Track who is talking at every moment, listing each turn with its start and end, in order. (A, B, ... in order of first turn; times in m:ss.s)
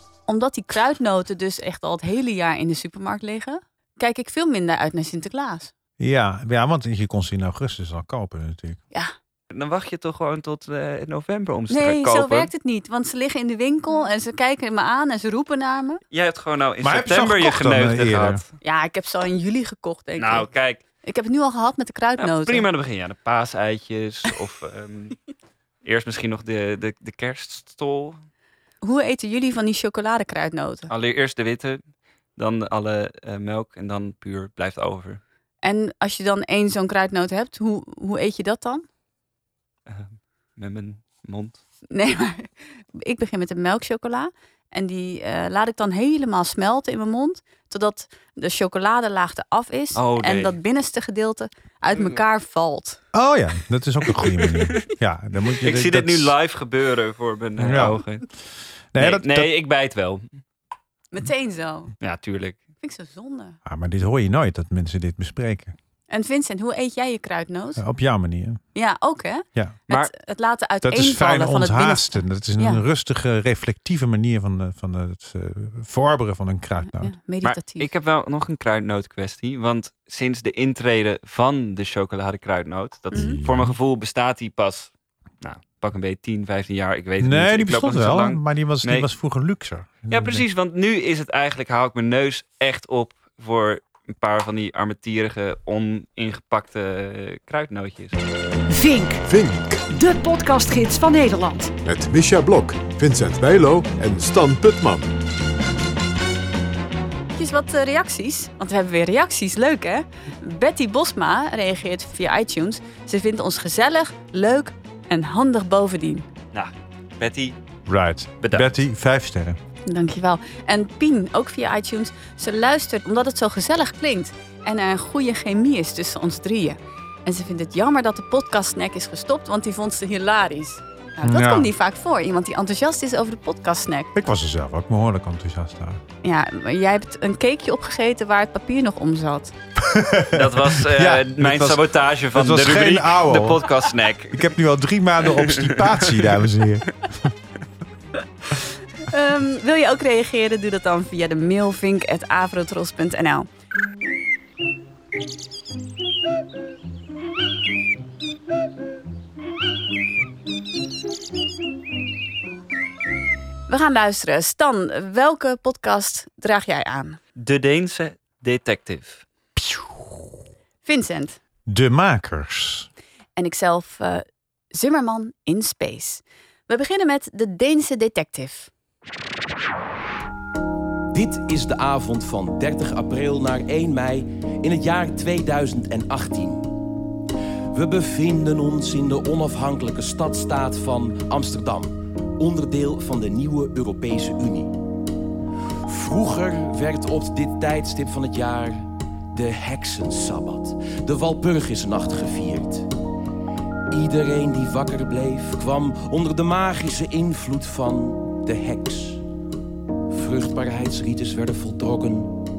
0:00.3-0:05.7 A
0:06.0-0:08.8 B
0:09.5-0:12.5 C
0:11.7-0:16.0 A
0:16.1-0:18.5 C
0:16.8-0:18.4 B
0:18.6-0:20.5 A
0:20.2-0:20.8 C
0:21.0-0:22.6 A
0:22.2-0:25.2 C
0:25.8-0:28.2 C
0:28.8-0:30.9 A
0:30.9-0:31.8 C
0:32.4-0:35.2 C
0:35.6-0:38.8 A
0:39.9-0:41.6 C
0:41.9-0:53.0 A
0:50.0-0:50.6 C
0:52.0-0:52.2 C
0:53.1-0:56.3 B
0:55.6-0:58.2 C
0:57.6-0:58.0 B
0:58.9-0:59.5 B
0:59.0-1:00.3 C
1:01.1-1:01.9 A
1:02.0-1:02.6 C
1:02.8-1:03.6 A
1:03.6-1:05.8 B
1:06.1-1:07.8 A
1:07.8-1:08.6 B
1:08.8-1:12.8 A
1:10.8-1:17.1 B
1:16.9-1:17.9 A
1:17.4-1:29.1 C
1:23.1-1:23.4 A
1:23.1-1:23.8 B
1:27.2-1:30.4 B
1:30.1-1:38.2 C
1:38.7-1:39.3 D
1:39.2-1:39.8 E
1:39.8-1:41.7 D
1:41.8-1:45.1 E
1:47.3-1:56.3 A
1:56.5-1:57.6 C
1:57.9-1:59.6 B
1:58.4-1:58.7 C
1:59.9-2:14.1 A
2:11.2-2:11.7 B
2:14.1-2:16.0 B
2:16.2-2:19.5 A
2:19.8-2:23.7 B
2:20.3-2:24.5 C
2:24.3-2:26.9 B
2:25.3-2:26.2 C
2:29.1-2:33.5 A
2:43.7-2:47.2 A
2:47.4-2:49.2 C
2:50.8-2:51.4 A
2:51.7-2:52.9 B
2:53.4-2:58.7 A
3:01.1-3:06.7 F
3:07.7-3:14.8 F
3:15.9-3:22.9 F
3:23.9-3:29.2 F
3:30.1-3:32.4 F